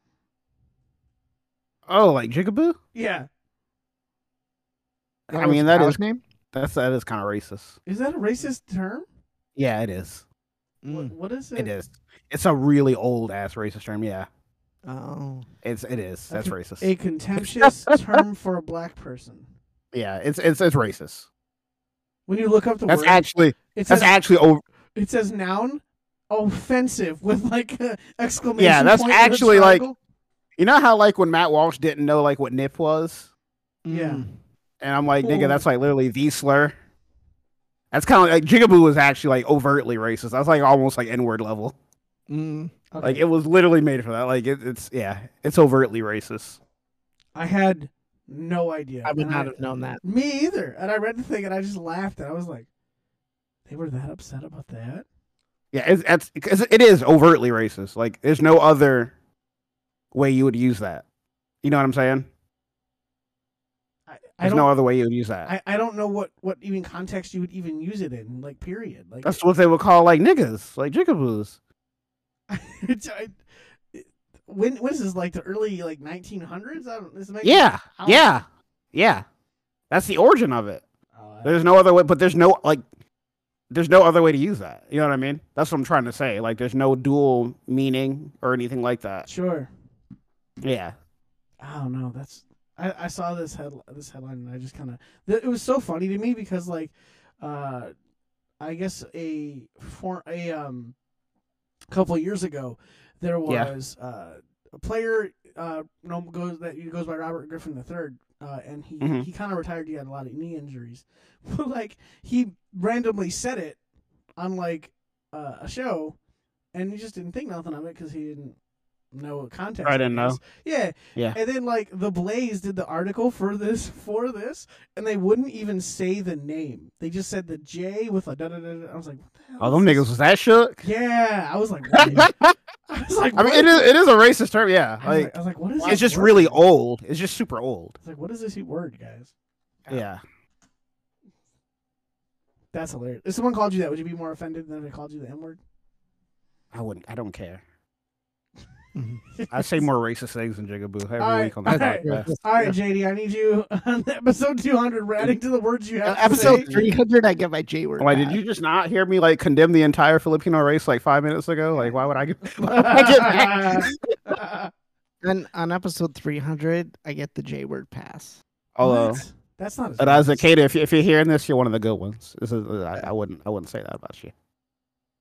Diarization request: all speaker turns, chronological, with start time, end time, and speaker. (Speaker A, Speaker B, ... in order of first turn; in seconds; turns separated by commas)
Speaker A: 1.9-2.8, Speaker B: 2.9-3.3, Speaker A: 5.3-6.0, Speaker C: 5.3-6.2, Speaker A: 6.5-7.8, Speaker B: 7.9-9.1, Speaker A: 9.6-10.2, Speaker C: 10.8-11.1, Speaker B: 10.9-11.7, Speaker A: 11.6-14.3, Speaker C: 14.8-15.5, Speaker A: 15.6-16.9, Speaker B: 16.3-19.5, Speaker A: 19.9-21.3, Speaker B: 22.3-24.2, Speaker A: 22.9-24.6, Speaker B: 24.9-30.0, Speaker A: 28.6-29.8, Speaker A: 30.6-33.3, Speaker C: 33.9-34.3, Speaker B: 33.9-34.2, Speaker A: 34.8-36.8, Speaker B: 35.2-35.6, Speaker A: 37.9-41.7, Speaker C: 42.3-42.7, Speaker B: 42.9-43.2, Speaker A: 43.0-46.6, Speaker B: 47.4-52.7, Speaker C: 49.0-50.0, Speaker B: 53.7-55.0, Speaker A: 55.7-59.1, Speaker A: 60.1-61.0, Speaker A: 61.6-62.3, Speaker B: 64.1-64.7, Speaker A: 64.4-65.5, Speaker B: 65.5-69.4, Speaker A: 69.2-71.6, Speaker B: 72.5-78.3, Speaker A: 77.4-79.2, Speaker A: 79.9-80.8, Speaker B: 81.2-81.6, Speaker A: 81.4-82.8, Speaker A: 83.7-89.3, Speaker B: 89.3-89.7, Speaker A: 90.6-91.0, Speaker B: 91.6-97.9, Speaker B: 98.6-101.0, Speaker B: 101.9-113.8, Speaker A: 103.5-103.7, Speaker A: 109.0-109.3, Speaker B: 114.4-116.2, Speaker B: 116.7-118.6, Speaker B: 119.1-130.0, Speaker A: 119.8-120.4, Speaker A: 129.6-130.8, Speaker B: 130.8-132.3, Speaker A: 131.9-132.6, Speaker B: 132.9-133.9, Speaker A: 133.4-135.3, Speaker B: 135.0-136.6, Speaker A: 135.8-138.0, Speaker B: 138.0-139.3, Speaker A: 139.9-140.2, Speaker B: 142.7-145.6, Speaker A: 146.7-147.6, Speaker C: 148.9-149.2, Speaker B: 149.3-149.8, Speaker A: 149.5-152.3, Speaker B: 151.2-156.7, Speaker C: 151.7-152.8, Speaker C: 156.1-158.4, Speaker A: 156.3-156.9, Speaker A: 158.0-164.0, Speaker B: 162.6-164.7, Speaker C: 165.2-168.4, Speaker A: 168.8-169.2, Speaker B: 168.8-170.5, Speaker A: 170.0-174.3